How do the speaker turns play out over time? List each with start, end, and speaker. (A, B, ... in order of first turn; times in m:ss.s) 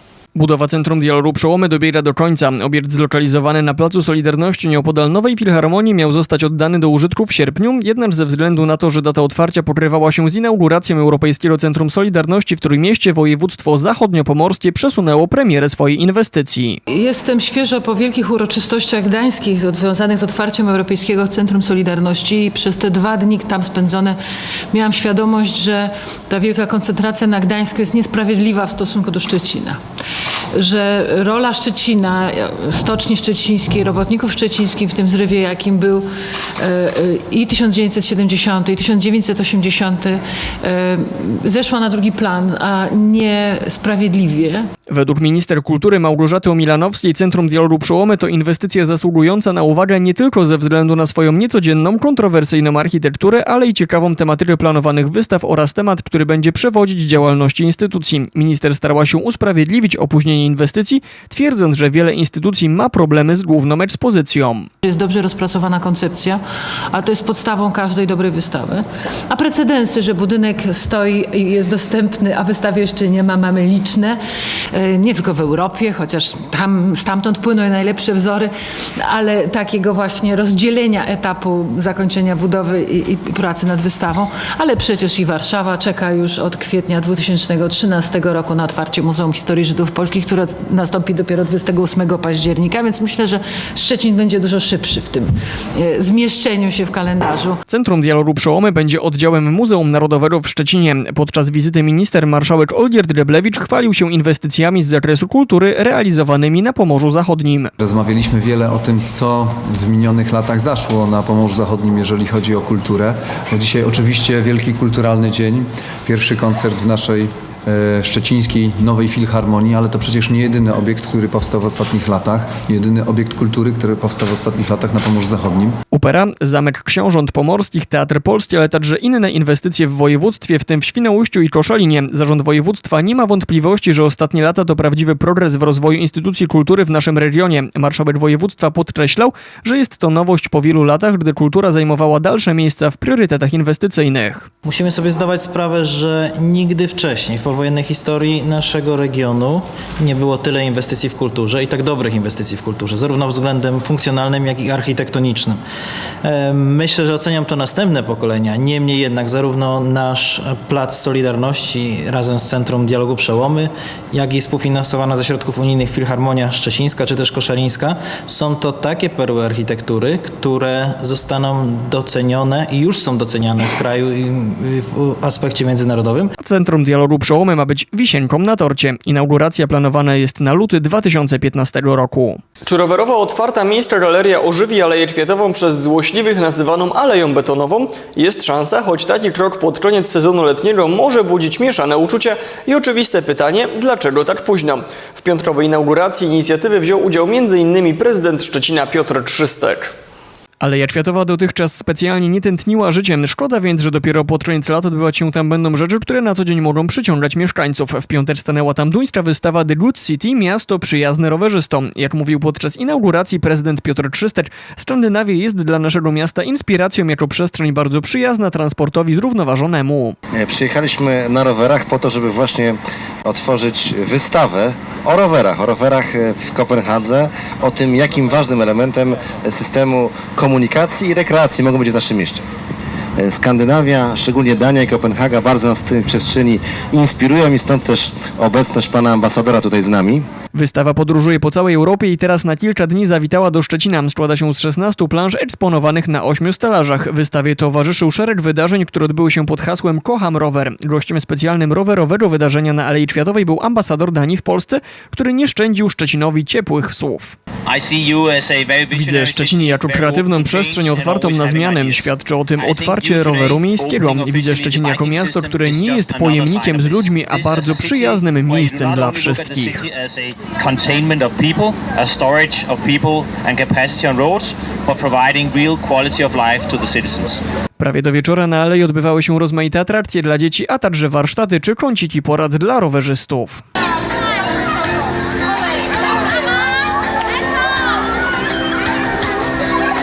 0:00.3-0:16.8 A
0:16.9-0:24.2 B
0:24.7-0:29.8 B
0:30.5-0:44.7 B
0:44.9-1:04.7 A
1:04.8-1:14.2 B
1:14.7-1:37.6 B
1:37.7-1:47.7 A
1:47.8-2:05.8 C
2:05.9-2:24.5 A
2:24.6-2:35.6 D
2:36.2-2:56.3 D
2:56.4-3:02.4 A
3:02.6-3:19.9 E
3:20.6-3:40.2 A
3:40.3-3:52.4 F
3:53.2-4:00.2 F
4:00.5-4:17.4 A
4:17.7-4:37.4 G
4:18.9-4:29.8 A
4:37.8-4:43.6 A